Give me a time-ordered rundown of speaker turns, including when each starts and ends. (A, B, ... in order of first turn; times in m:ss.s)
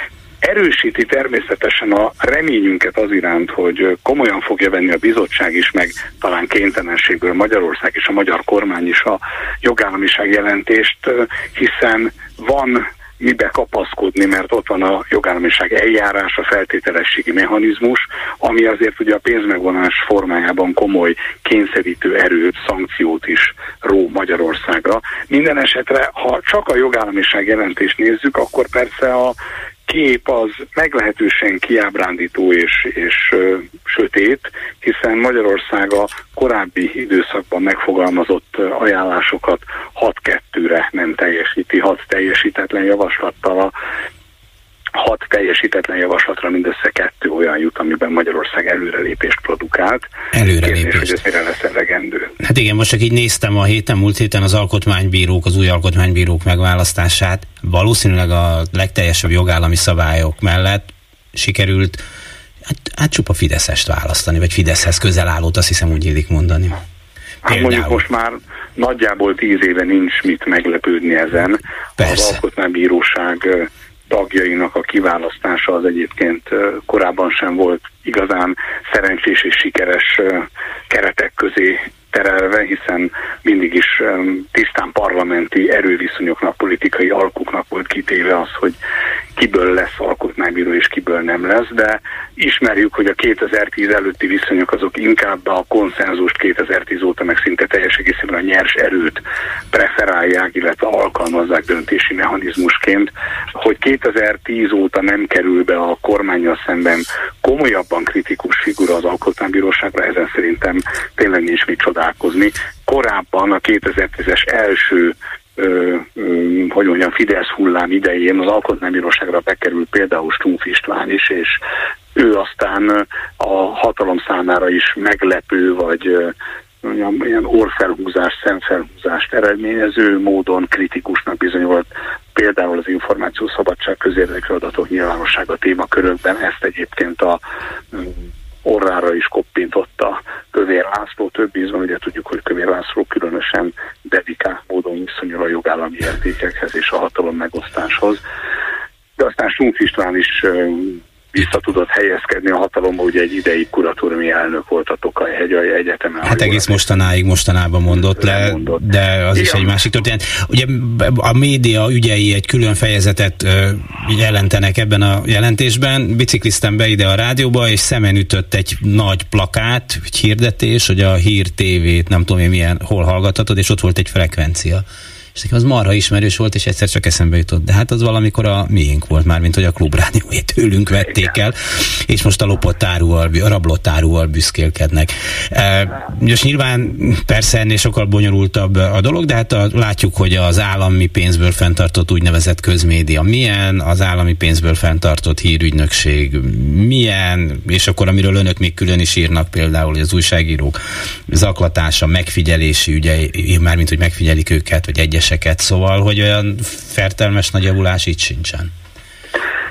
0:00.4-0:29.4 A
0:29.9-0:43.7 A
0:45.0-0:50.1 A
0:50.3-0:51.2 B
0:50.6-0:52.3 A
0:52.4-1:02.0 B
1:02.7-1:06.8 B
1:07.4-1:08.0 B
1:07.4-1:28.8 A
1:12.0-1:12.4 B
1:29.4-2:01.5 A
2:02.1-2:17.4 A
2:18.6-2:28.2 A
2:29.2-2:36.8 A
2:36.2-3:28.7 B
2:38.2-2:38.8 A
2:39.3-2:39.7 A